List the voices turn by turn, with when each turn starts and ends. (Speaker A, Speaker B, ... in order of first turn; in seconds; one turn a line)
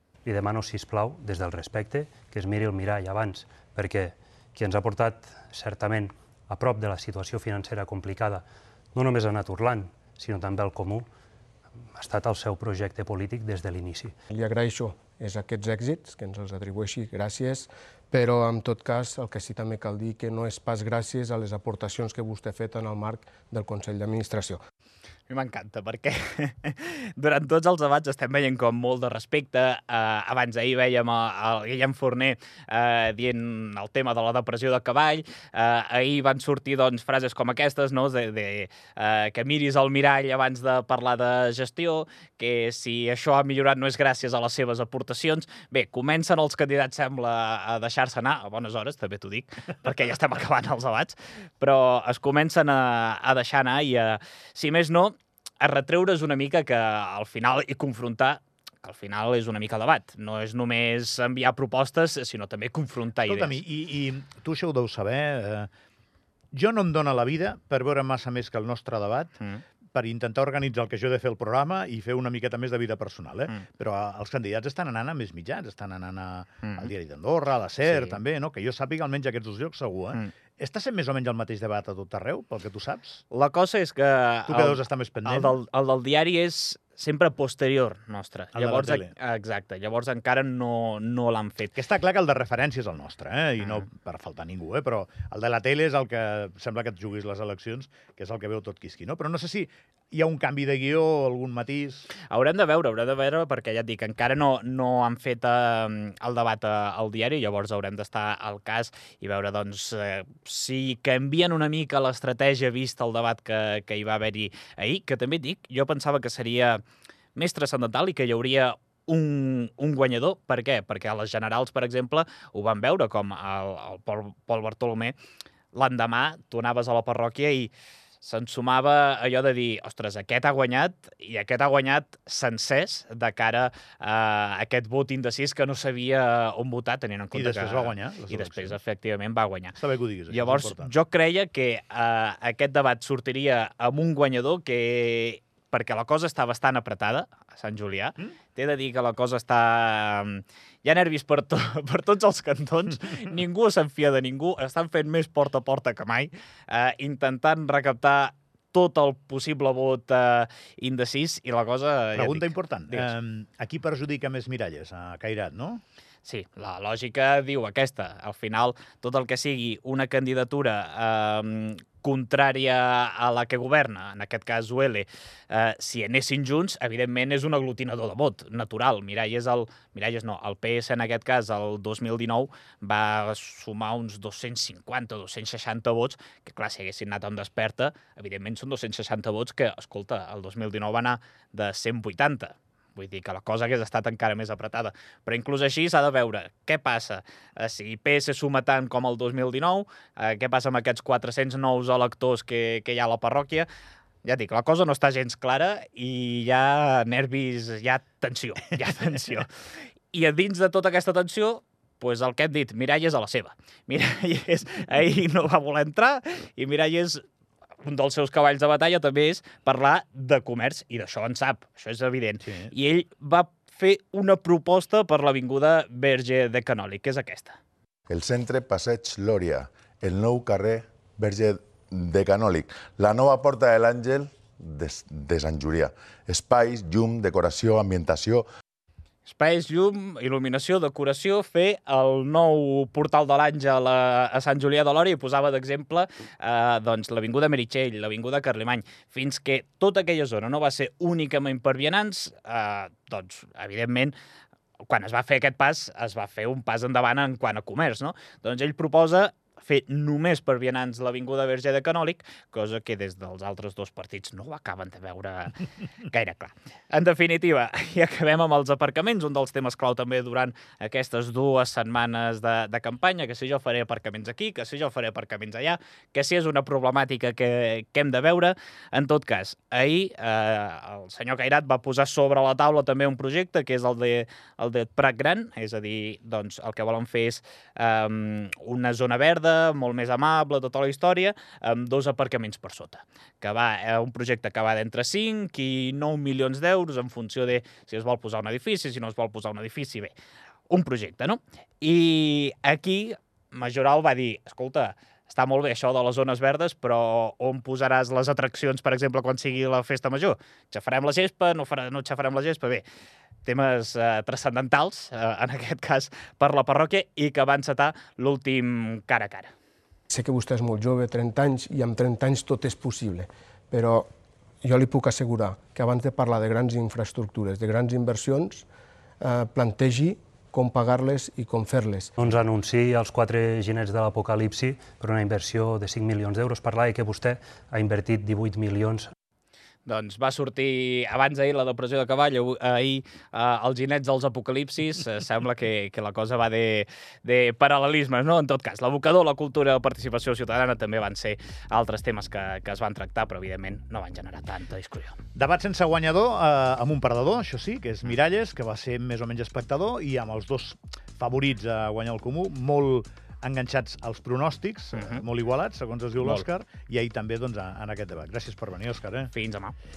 Speaker A: 0.2-8.4
Speaker A: 8.9-11.1
Speaker A: 11.9-14.1
Speaker B: 14.3-24.6
Speaker C: 25.3-63.6
Speaker D: 63.2-65.7
Speaker D: 66.5-69.3
Speaker D: 69.9-83.2
Speaker C: 76.6-76.9
Speaker C: 77.9-78.2
Speaker C: 83.3-91.8
Speaker D: 84.5-85.5
Speaker D: 88.5-89.1
Speaker D: 91.8-102.1
Speaker C: 102.3-116.8
Speaker C: 117.3-125.1
Speaker C: 125.7-127.7
Speaker C: 128.2-139.8
Speaker D: 137.3-138.8
Speaker D: 139.8-140.9
Speaker C: 140.3-163.1
Speaker D: 162.2-165.8
Speaker C: 166.2-203.7
Speaker C: 204.2-209.5
Speaker C: 210.1-217.2
Speaker C: 217.8-227.6
Speaker D: 222.4-222.7
Speaker E: 228.1-238.5
Speaker C: 239.2-254.1
Speaker C: 254.8-300.1
Speaker C: 300.7-312.8
Speaker C: 313.4-319.5
Speaker B: 320.1-324.1
Speaker B: 324.6-328.6
Speaker B: 329.2-332.1
Speaker A: 332.2-339.1
Speaker C: 339.9-355.2
Speaker D: 355.4-369.3
Speaker C: 364.9-365.2
Speaker C: 369.3-369.8